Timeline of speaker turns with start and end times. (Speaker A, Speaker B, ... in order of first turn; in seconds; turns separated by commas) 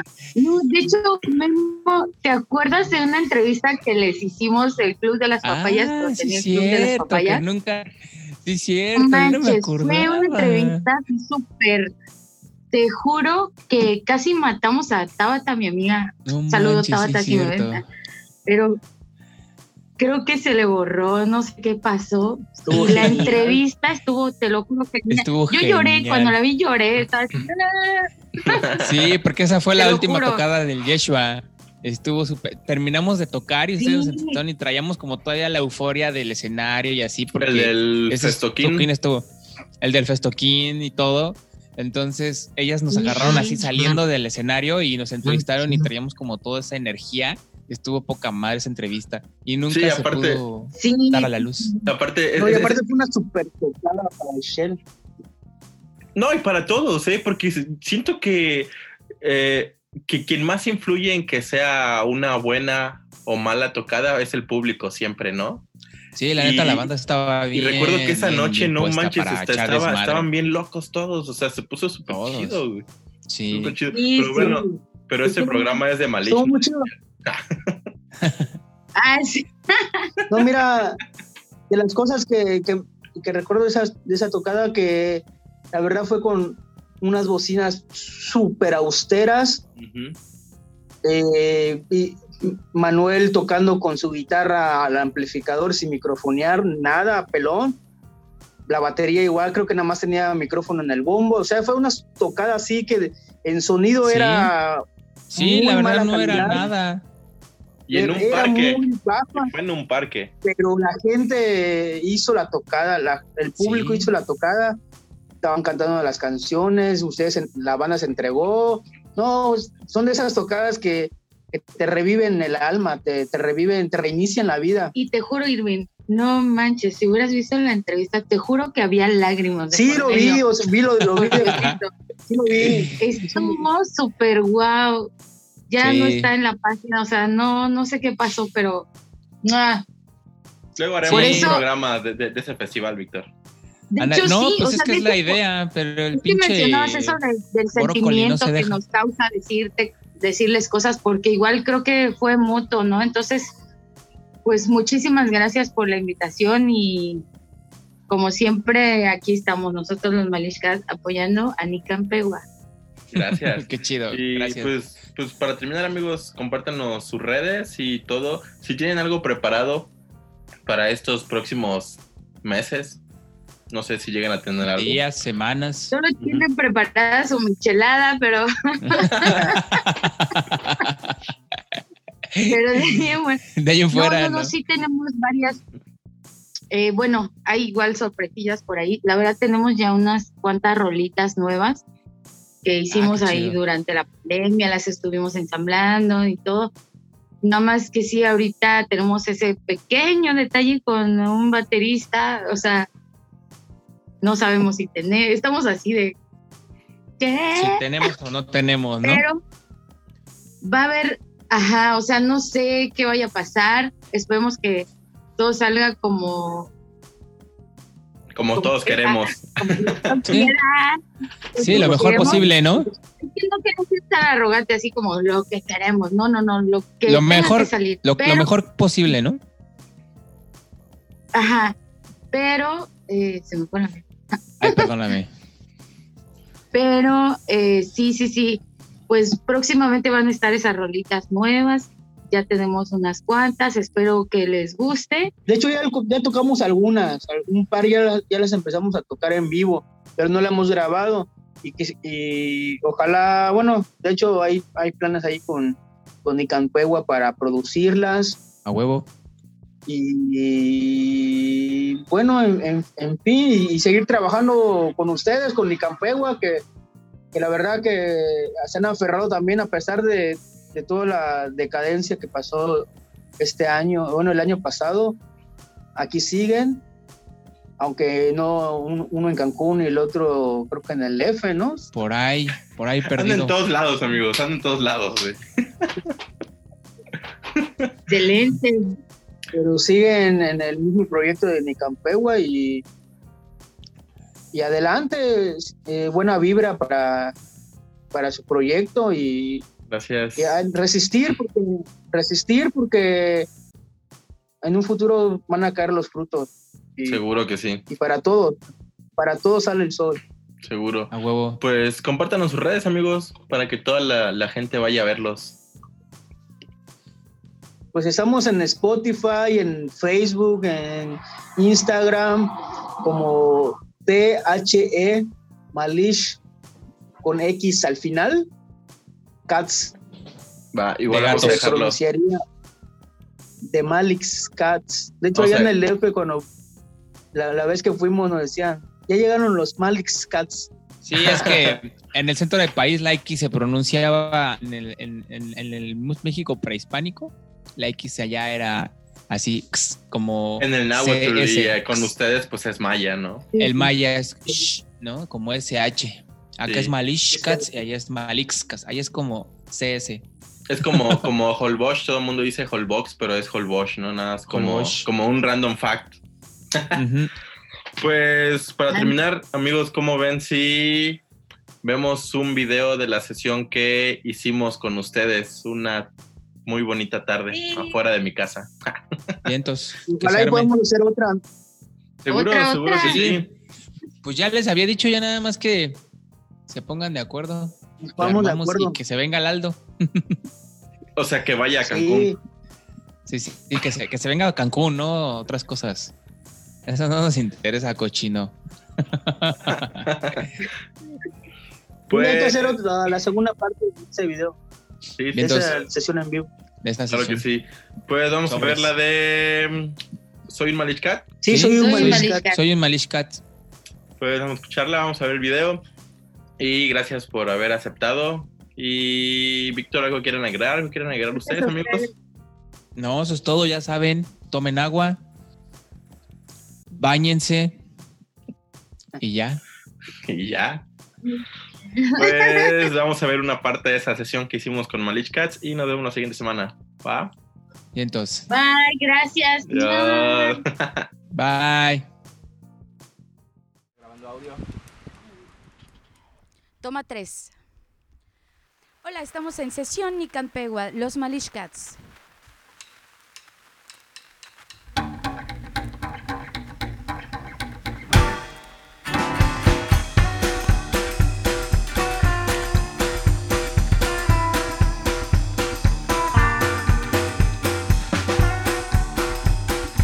Speaker A: 0.3-7.4, Speaker B: 5.4-10.8, Speaker A: 9.0-11.9, Speaker A: 12.7-17.8, Speaker B: 16.2-17.9, Speaker A: 18.4-18.8, Speaker A: 20.0-28.7, Speaker C: 22.6-23.6, Speaker B: 22.7-23.4, Speaker B: 25.1-26.4, Speaker D: 28.4-28.8, Speaker B: 28.8-39.3, Speaker A: 29.8-30.4, Speaker A: 33.8-34.4, Speaker D: 37.3-38.9, Speaker B: 39.8-51.7, Speaker A: 42.9-43.7, Speaker D: 49.7-50.4, Speaker A: 50.8-51.9, Speaker D: 51.9-52.8, Speaker C: 52.4-54.8, Speaker D: 56.1-65.6, Speaker B: 66.1-70.3, Speaker D: 66.4-66.9, Speaker D: 67.5-72.8, Speaker B: 72.1-72.6, Speaker B: 73.3-73.7, Speaker D: 73.5-76.7, Speaker A: 73.9-74.7, Speaker C: 74.3-74.6, Speaker C: 76.2-76.9, Speaker D: 77.2-77.8, Speaker B: 78.2-78.5, Speaker A: 79.0-80.1, Speaker C: 80.3-81.0, Speaker C: 81.7-89.6, Speaker D: 89.8-90.2, Speaker C: 91.0-97.8, Speaker C: 98.7-104.8, Speaker B: 104.0-104.5, Speaker B: 105.3-107.0, Speaker C: 105.3-106.7, Speaker D: 107.9-108.8, Speaker C: 107.9-109.5, Speaker D: 109.4-110.3, Speaker C: 110.4-114.8, Speaker B: 113.6-114.1, Speaker C: 115.4-124.9, Speaker A: 124.9-130.4, Speaker C: 129.7-131.6, Speaker A: 131.1-131.9, Speaker B: 131.3-131.8, Speaker C: 132.3-133.5, Speaker B: 132.5-133.0, Speaker A: 133.0-135.1, Speaker A: 135.7-138.9, Speaker B: 135.8-136.3, Speaker A: 139.4-139.8, Speaker D: 140.8-143.3, Speaker B: 141.0-141.6, Speaker A: 141.1-141.6, Speaker A: 143.9-145.3, Speaker B: 144.0-147.2, Speaker A: 146.1-153.4, Speaker B: 147.7-148.8, Speaker A: 154.4-157.2, Speaker A: 158.1-162.4, Speaker D: 163.1-169.9, Speaker B: 163.5-164.7, Speaker D: 170.7-173.0, Speaker D: 173.7-175.0, Speaker B: 174.6-175.9, Speaker A: 175.9-179.6, Speaker B: 178.9-181.1, Speaker B: 182.3-183.0, Speaker A: 182.5-183.4, Speaker B: 183.6-184.5, Speaker A: 183.9-185.6, Speaker A: 186.7-191.8, Speaker A: 192.6-196.7, Speaker B: 192.9-193.6, Speaker A: 197.4-202.9, Speaker A: 204.2-206.2, Speaker A: 207.2-207.8, Speaker B: 207.6-209.2, Speaker A: 209.0-209.4, Speaker A: 210.6-216.7, Speaker D: 218.3-220.2, Speaker A: 218.6-221.0, Speaker B: 220.2-220.5, Speaker A: 221.5-228.5, Speaker B: 221.6-222.9, Speaker C: 221.7-222.5, Speaker B: 227.1-229.4, Speaker A: 231.3-231.7, Speaker A: 232.3-234.1, Speaker B: 234.6-235.3, Speaker A: 236.7-245.3, Speaker C: 245.5-258.4, Speaker B: 258.6-259.1, Speaker C: 259.9-266.6, Speaker C: 267.3-275.2, Speaker C: 275.9-276.8, Speaker C: 277.8-281.9, Speaker B: 281.9-283.5, Speaker D: 283.1-285.9, Speaker D: 287.6-287.9, Speaker A: 288.1-289.0, Speaker C: 289.5-292.8, Speaker C: 294.5-297.3, Speaker C: 298.1-299.6, Speaker D: 299.9-300.6, Speaker C: 300.4-303.5, Speaker C: 304.6-307.2, Speaker D: 307.1-307.8, Speaker C: 307.9-308.6, Speaker C: 309.2-310.2, Speaker D: 310.6-315.6, Speaker B: 311.1-311.6, Speaker C: 317.9-326.4, Speaker C: 327.2-328.5, Speaker C: 329.5-329.9, Speaker D: 330.7-332.0, Speaker B: 331.1-331.8, Speaker C: 331.3-332.4, Speaker C: 333.6-336.5, Speaker D: 335.3-335.7, Speaker C: 337.3-340.7, Speaker B: 341.0-352.1, Speaker D: 341.1-341.8, Speaker D: 350.6-353.5, Speaker B: 353.6-360.2, Speaker D: 356.6-356.9, Speaker C: 357.3-357.7, Speaker D: 360.7-366.2, Speaker B: 364.5-365.1, Speaker B: 366.9-367.3, Speaker D: 368.0-371.2, Speaker A: 368.9-369.2, Speaker D: 371.8-376.1, Speaker D: 376.6-378.7, Speaker A: 377.5-378.0, Speaker B: 379.4-380.7, Speaker C: 380.1-381.4, Speaker D: 382.2-383.5, Speaker A: 382.3-383.2, Speaker B: 383.0-383.5, Speaker B: 384.2-386.0, Speaker B: 386.7-390.4, Speaker C: 388.0-388.9, Speaker D: 391.2-392.3, Speaker C: 391.8-392.4, Speaker B: 393.3-396.1, Speaker B: 396.9-400.5, Speaker D: 400.1-400.5, Speaker D: 402.1-402.8, Speaker C: 402.1-404.6, Speaker D: 405.2-405.9, Speaker B: 405.3-405.7, Speaker C: 405.4-406.5, Speaker B: 406.8-407.4, Speaker D: 407.1-411.3, Speaker B: 408.5-408.9, Speaker C: 411.4-412.4, Speaker B: 411.5-413.4, Speaker A: 411.7-412.6, Speaker D: 414.2-415.8, Speaker D: 416.6-422.1, Speaker A: 421.3-422.1, Speaker B: 422.9-425.2, Speaker B: 427.0-427.8, Speaker B: 429.2-429.6, Speaker D: 430.2-430.8, Speaker A: 432.0-432.8, Speaker D: 432.2-437.3, Speaker B: 437.9-438.5, Speaker A: 438.5-440.6, Speaker D: 439.7-441.1, Speaker B: 441.3-442.1, Speaker E: 446.8-447.5, Speaker E: 449.0-452.0